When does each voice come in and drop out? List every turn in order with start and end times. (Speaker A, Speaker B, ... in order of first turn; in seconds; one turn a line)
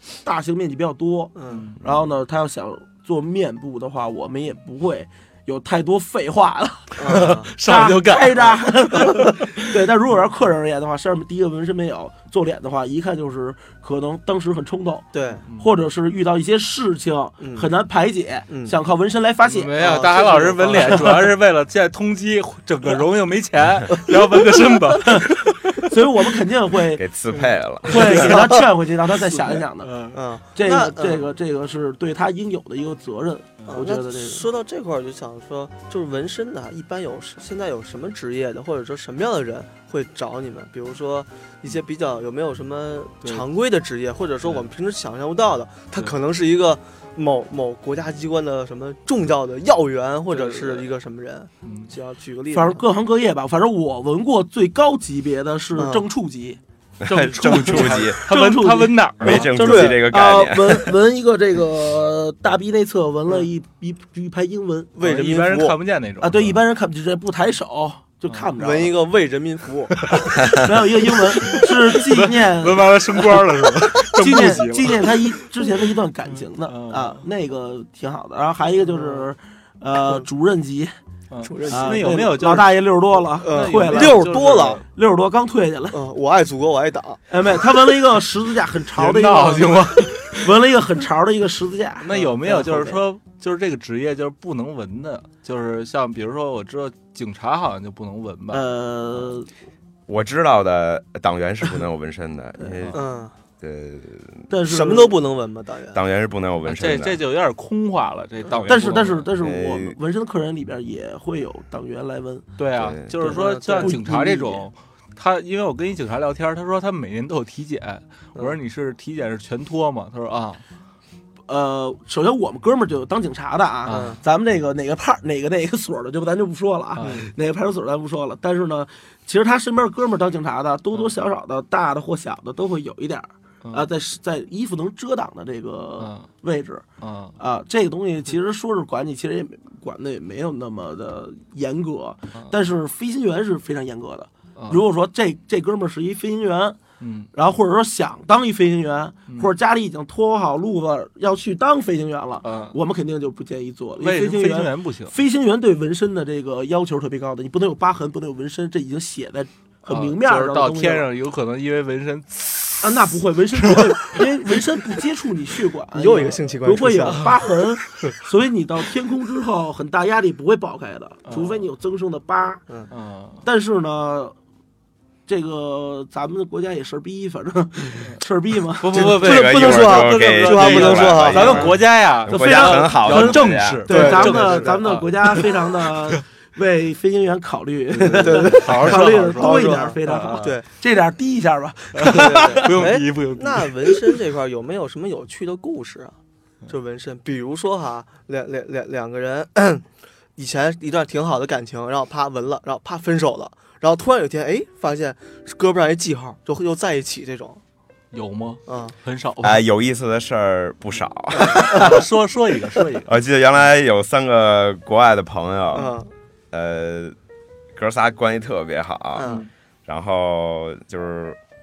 Speaker A: 0.2-21.3
Speaker B: 1.4-1.6
Speaker C: 1.5-2.0
Speaker B: 7.0-7.5
Speaker C: 7.1-9.3
Speaker B: 8.4-9.4
Speaker B: 15.1-15.4
Speaker B: 17.4-17.7
Speaker B: 18.5-18.8
Speaker C: 19.4-25.9
Speaker B: 19.8-21.1
Speaker A: 25.1-27.1
Speaker D: 26.9-28.3
Speaker B: 27.3-28.7
Speaker A: 27.9-29.9
Speaker C: 29.3-30.2
Speaker B: 30.1-31.3
Speaker A: 30.6-34.5
Speaker B: 33.7-52.9
Speaker A: 50.3-50.8
Speaker C: 51.6-51.9
Speaker A: 52.5-56.6
Speaker B: 55.8-56.0
Speaker D: 57.0-58.2
Speaker C: 57.0-59.5
Speaker A: 57.7-64.9
Speaker D: 59.2-61.0
Speaker B: 59.4-60.0
Speaker B: 65.0-65.8
Speaker C: 65.0-66.6
Speaker A: 66.2-69.0
Speaker B: 68.6-70.0
Speaker C: 70.0-70.4
Speaker A: 70.4-73.5
Speaker C: 71.0-77.2
Speaker A: 74.0-80.9
Speaker B: 78.8-79.3
Speaker C: 81.3-84.8
Speaker B: 81.4-82.2
Speaker A: 81.7-86.0
Speaker B: 83.4-84.8
Speaker B: 85.9-87.2
Speaker A: 87.3-93.0
Speaker C: 89.0-90.5
Speaker C: 92.0-99.2
Speaker A: 98.5-99.5
Speaker D: 100.1-103.0
Speaker A: 102.6-102.9
Speaker B: 102.9-103.3
Speaker D: 103.6-104.5
Speaker A: 104.5-105.2
Speaker B: 104.7-106.0
Speaker D: 105.9-107.2
Speaker C: 106.7-109.3
Speaker A: 108.7-112.5
Speaker D: 109.4-110.0
Speaker C: 112.6-120.6
Speaker D: 112.8-113.1
Speaker A: 113.2-114.7
Speaker B: 113.2-114.0
Speaker A: 121.5-136.8
Speaker C: 123.8-124.2
Speaker B: 123.9-124.2
Speaker C: 127.0-127.2
Speaker B: 127.0-127.3
Speaker C: 133.6-133.9
Speaker C: 136.0-136.3
Speaker C: 137.0-137.4
Speaker A: 137.4-146.8
Speaker C: 144.6-144.8
Speaker C: 147.0-147.3
Speaker A: 147.3-161.1
Speaker C: 152.4-152.8
Speaker C: 154.0-155.2
Speaker C: 159.9-164.8
Speaker A: 162.8-172.6
Speaker B: 165.9-167.4
Speaker C: 171.2-171.6
Speaker C: 172.9-173.4
Speaker A: 173.4-174.3
Speaker A: 175.3-179.1
Speaker C: 178.8-186.2
Speaker B: 178.9-181.8
Speaker D: 179.1-183.9
Speaker A: 181.3-192.8
Speaker B: 183.9-184.8
Speaker C: 187.9-190.5
Speaker B: 188.2-190.7
Speaker C: 192.0-193.9
Speaker B: 192.0-196.2
Speaker B: 196.7-207.6
Speaker C: 208.1-209.6
Speaker B: 208.7-208.9
Speaker D: 209.4-212.0
Speaker B: 211.3-212.0
Speaker C: 211.4-213.1
Speaker D: 213.1-216.0
Speaker B: 215.7-216.1
Speaker D: 216.5-217.2
Speaker D: 217.8-219.3
Speaker B: 219.2-219.4
Speaker C: 219.2-219.5
Speaker D: 219.9-221.4